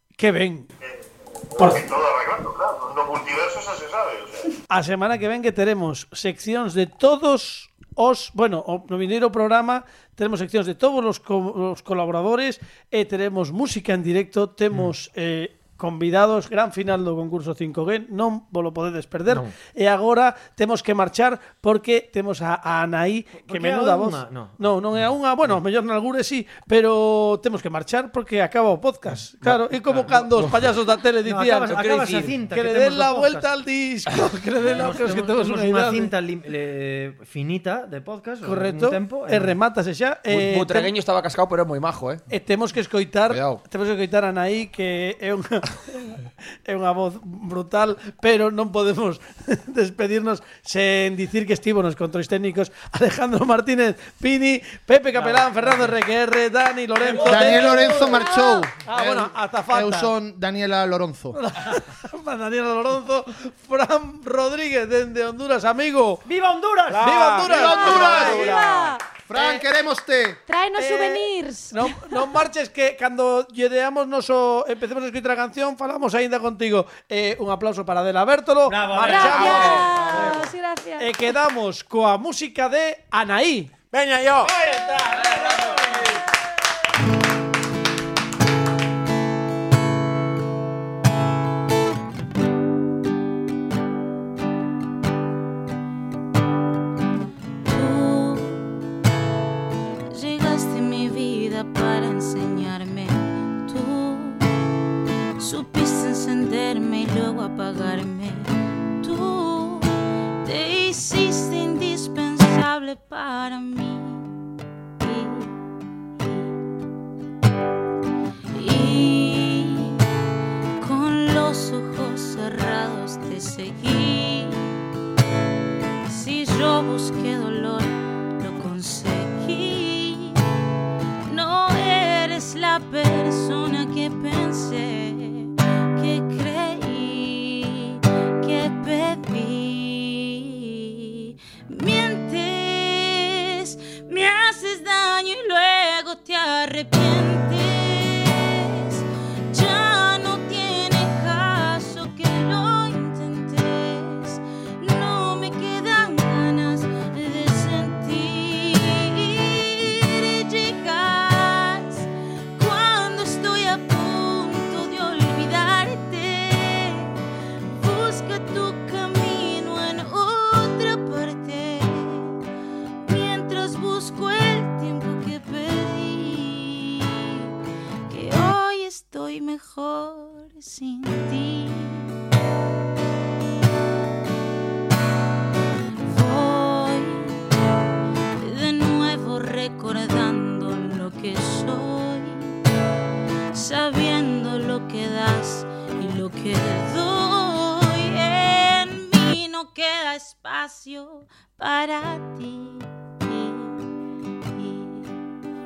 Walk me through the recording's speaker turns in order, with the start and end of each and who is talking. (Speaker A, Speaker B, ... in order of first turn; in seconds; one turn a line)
Speaker A: 0.2-0.7
Speaker B: 0.8-4.5
Speaker A: 4.7-31.8
Speaker C: 19.3-19.5
Speaker C: 23.4-24.6
Speaker C: 29.4-30.1
Speaker C: 31.2-33.5
Speaker D: 31.7-32.4
Speaker A: 32.5-36.1
Speaker C: 34.7-39.6
Speaker A: 38.4-40.9
Speaker D: 40.3-42.2
Speaker A: 42.3-58.0
Speaker C: 55.3-55.9
Speaker D: 57.0-57.5
Speaker E: 57.2-61.4
Speaker F: 57.6-58.7
Speaker A: 58.8-60.1
Speaker A: 61.3-66.3
Speaker C: 66.2-67.2
Speaker G: 66.9-68.9
Speaker A: 67.0-68.6
Speaker E: 67.4-70.4
Speaker F: 67.5-69.0
Speaker A: 69.3-69.6
Speaker F: 70.5-72.2
Speaker A: 70.8-79.9
Speaker C: 78.7-80.5
Speaker F: 79.0-81.3
Speaker A: 81.0-83.7
Speaker G: 83.9-84.5
Speaker A: 84.5-86.0
Speaker D: 85.1-86.2
Speaker H: 97.6-98.6
Speaker H: 100.1-104.5
Speaker H: 105.4-114.3
Speaker H: 115.0-115.5
Speaker H: 116.2-116.5
Speaker H: 118.5-120.0
Speaker H: 120.8-124.7
Speaker H: 126.0-130.4
Speaker H: 131.3-167.1
Speaker H: 167.7-172.4
Speaker H: 173.0-177.4
Speaker H: 178.1-182.1
Speaker H: 186.0-187.4
Speaker H: 188.4-192.6
Speaker H: 193.5-203.8
Speaker H: 204.5-205.1